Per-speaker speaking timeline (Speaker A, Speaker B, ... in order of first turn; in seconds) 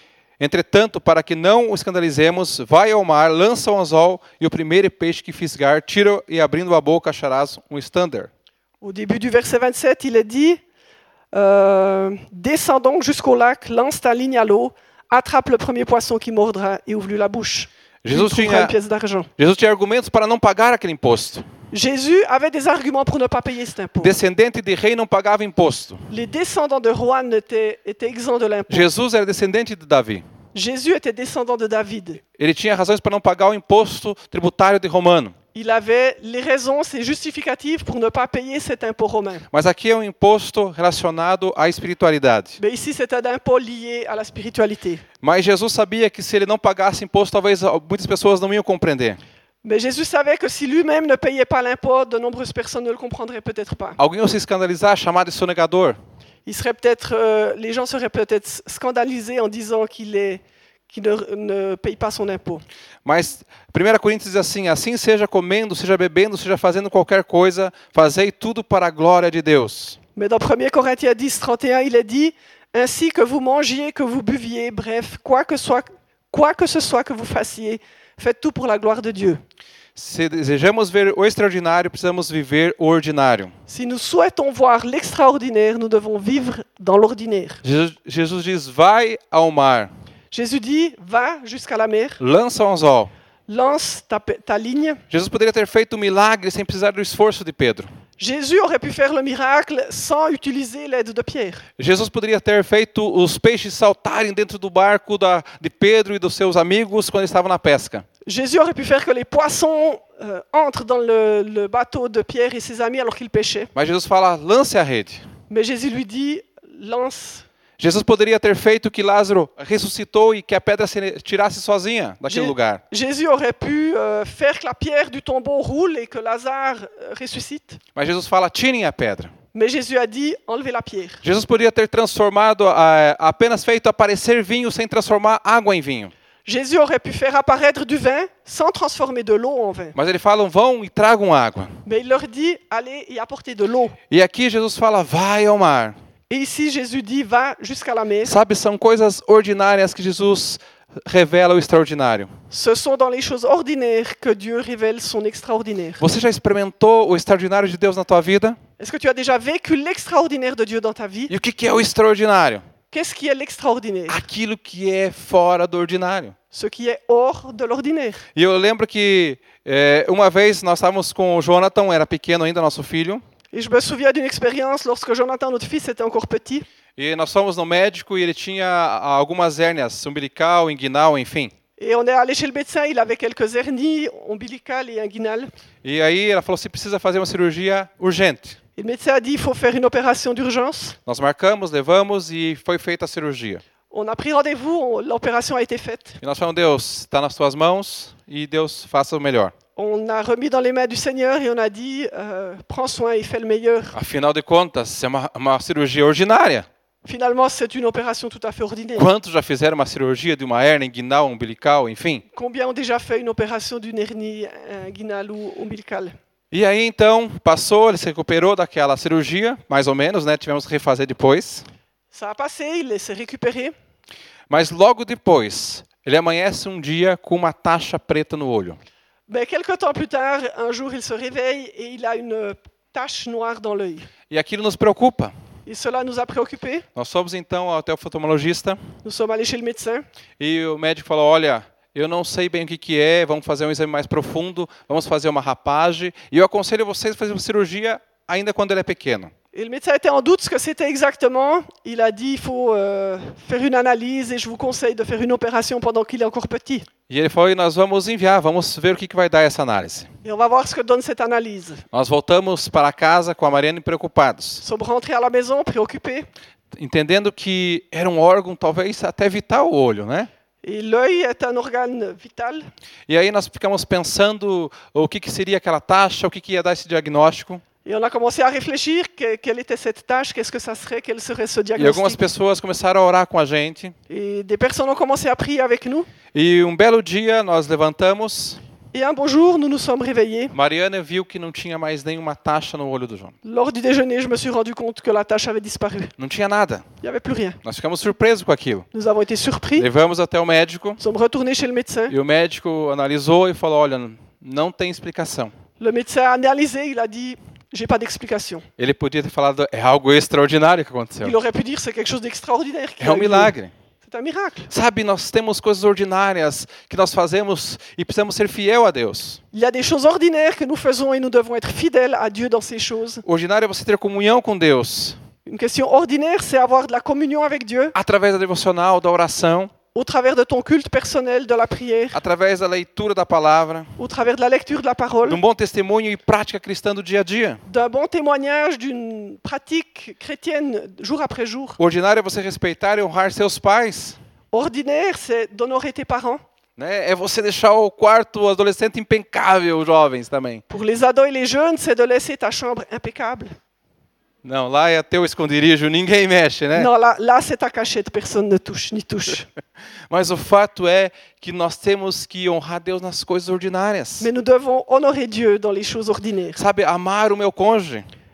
Speaker A: 0.4-8.3, 18.0-18.7, 19.4-21.4, 24.0-26.1, 28.7-30.2, 32.4-35.4, 39.5-42.6, 45.2-49.2, 54.0-56.0, 63.0-70.0, 80.0-83.5, 87.6-89.9, 92.2-93.1, 95.1-97.9, 101.8-108.0, 113.8-115.2, 117.8-122.8, 128.0-129.3, 131.2-136.1, 139.9-141.8, 144.1-145.9, 148.2-152.3, 156.0-158.6, 161.3-162.6, 164.1-166.4, 168.3-173.2, 177.0-181.5, 185.8-188.6, 191.1-193.6, 196.2-199.5, 203.9-206.7, 209.0-212.2, 216.5-221.7, 224.5-228.8, 234.3-235.3, 236.9-238.8, 240.4-249.3, 257.1-260.1, 261.9-264.6, 266.8-270.3, 273.1-277.6, 281.8-283.9, 286.3-288.6, 290.5-293.4, 296.2-296.9, 297.6-298.9, 299.8-301.0, 302.1-305.5, 308.8-311.4, 313.0-313.7, 314.7-319.4, 323.2-325.2, 327.9-329.7, 332.1-333.9, 335.3-337.6, 341.8-344.2, 346.8-350.6, 354.4-356.9, 360.1-364.3, 366.6-368.1
Speaker B: 8.8-10.6, 11.3-19.3, 21.7-24.1, 26.1-28.9, 30.5-32.2, 35.5-39.5, 42.6-45.0, 49.6-54.0, 56.5-62.6, 70.2-79.4, 83.7-87.6, 90.3-92.2, 93.5-95.0, 98.2-101.6, 108.3-113.7, 115.5-117.5, 122.3-127.8, 129.5-131.2, 136.4-139.9, 141.9-144.0, 146.3-148.3, 152.5-156.0, 158.8-161.3, 162.9-164.2, 166.5-168.2, 173.5-176.7, 181.8-185.5, 188.8-191.0, 193.9-196.2, 199.8-203.9, 207.1-209.1, 212.3-216.2, 222.1-223.7, 229.3-234.1, 235.7-236.9, 239.0-240.1, 249.5-256.9, 260.2-261.8, 264.6-266.3, 270.6-272.6, 277.9-282.2, 284.1-286.1, 288.9-290.6, 293.4-296.1, 297.0-297.6, 298.9-299.9, 301.0-302.1, 305.8-308.7, 311.2-314.7, 319.5-323.2, 325.5-327.9, 329.9-332.2, 334.0-335.4, 337.7-341.8, 344.5-346.4, 350.7-353.6, 356.8-359.5, 364.2-366.6